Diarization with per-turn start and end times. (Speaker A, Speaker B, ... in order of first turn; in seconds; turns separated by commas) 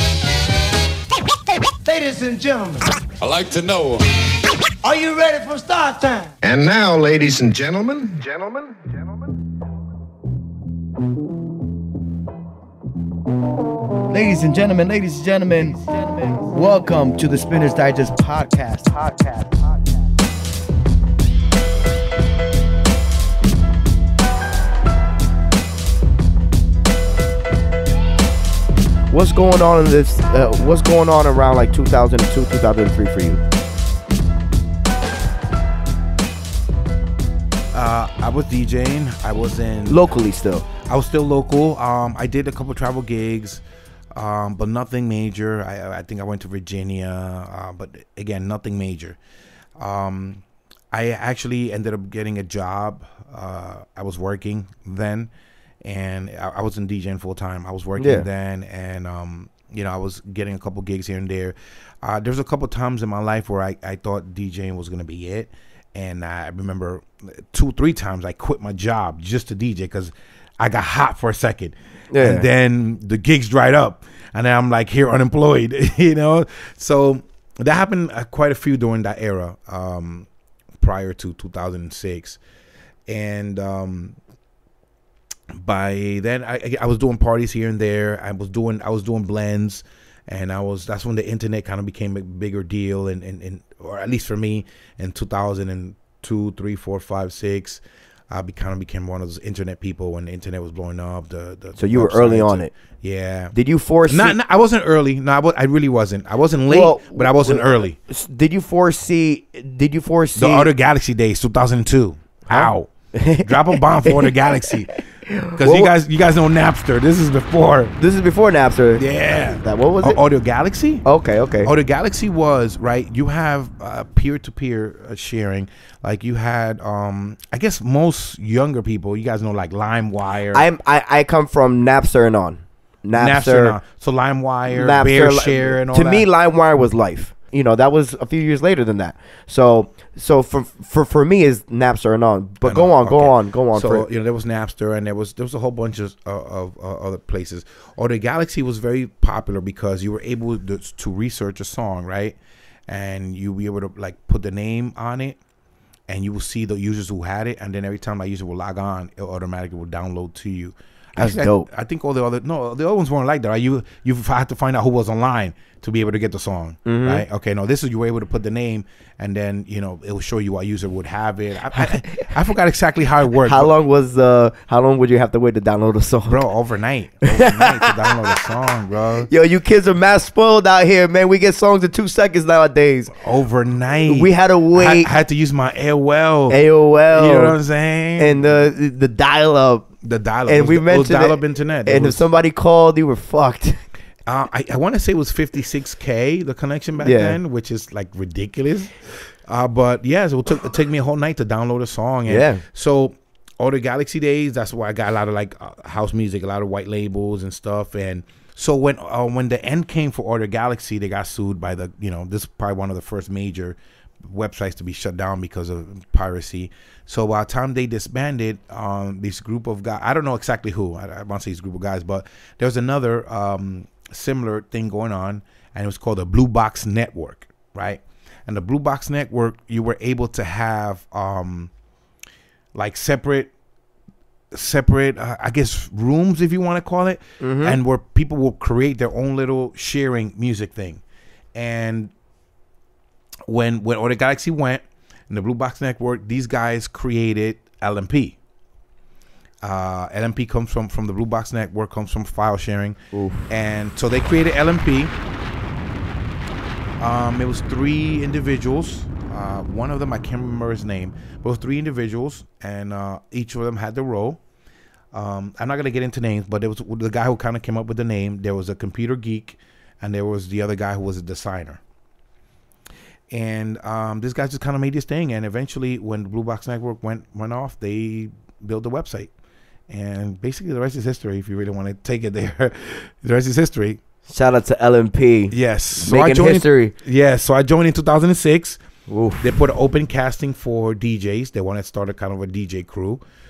Speaker A: 1.8-2.9, Speaker A: 4.8-6.3, Speaker B: 6.4-8.7, Speaker C: 14.1-19.6, Speaker C: 29.1-33.4, Speaker D: 37.7-40.2, Speaker C: 39.9-40.7, Speaker D: 40.8-43.6, Speaker D: 44.1-49.2, Speaker D: 49.8-55.3, Speaker D: 55.8-80.3, Speaker C: 58.0-58.2, Speaker C: 72.1-72.5, Speaker D: 80.8-82.4, Speaker D: 83.1-84.2, Speaker D: 85.5-103.5, Speaker C: 101.8-102.7, Speaker C: 103.5-104.4, Speaker D: 104.1-108.0, Speaker C: 106.7-110.7, Speaker D: 110.4-114.9, Speaker C: 112.5-114.7, Speaker C: 115.2-115.9, Speaker D: 115.5-118.0, Speaker C: 118.0-120.2, Speaker D: 119.0-121.0, Speaker C: 121.0-121.7, Speaker D: 121.6-130.6, Speaker C: 130.5-133.8, Speaker D: 133.2-136.3, Speaker C: 134.7-144.1, Speaker D: 142.6-152.4, Speaker D: 152.9-155.4, Speaker D: 156.1-173.7, Speaker C: 161.2-161.7, Speaker C: 166.8-167.2, Speaker C: 171.7-172.3, Speaker C: 173.4-176.4, Speaker D: 176.3-179.3, Speaker C: 177.2-178.4, Speaker C: 179.3-183.1, Speaker D: 183.1-188.6, Speaker C: 184.1-185.1, Speaker C: 186.5-187.6, Speaker C: 188.2-189.9, Speaker D: 190.0-192.2, Speaker C: 190.5-193.8, Speaker D: 194.2-231.7, Speaker C: 197.0-197.4, Speaker C: 202.3-202.6, Speaker D: 232.7-233.5, Speaker D: 234.5-241.0, Speaker C: 237.4-237.8, Speaker D: 241.5-242.1, Speaker D: 243.5-248.3, Speaker D: 249.6-253.0, Speaker C: 253.1-253.4, Speaker D: 253.5-255.1, Speaker D: 257.0-264.4, Speaker D: 265.1-271.8, Speaker D: 273.3-279.3, Speaker D: 279.9-284.0, Speaker C: 284.3-286.9, Speaker D: 285.5-288.8, Speaker C: 289.1-289.6, Speaker D: 289.4-293.2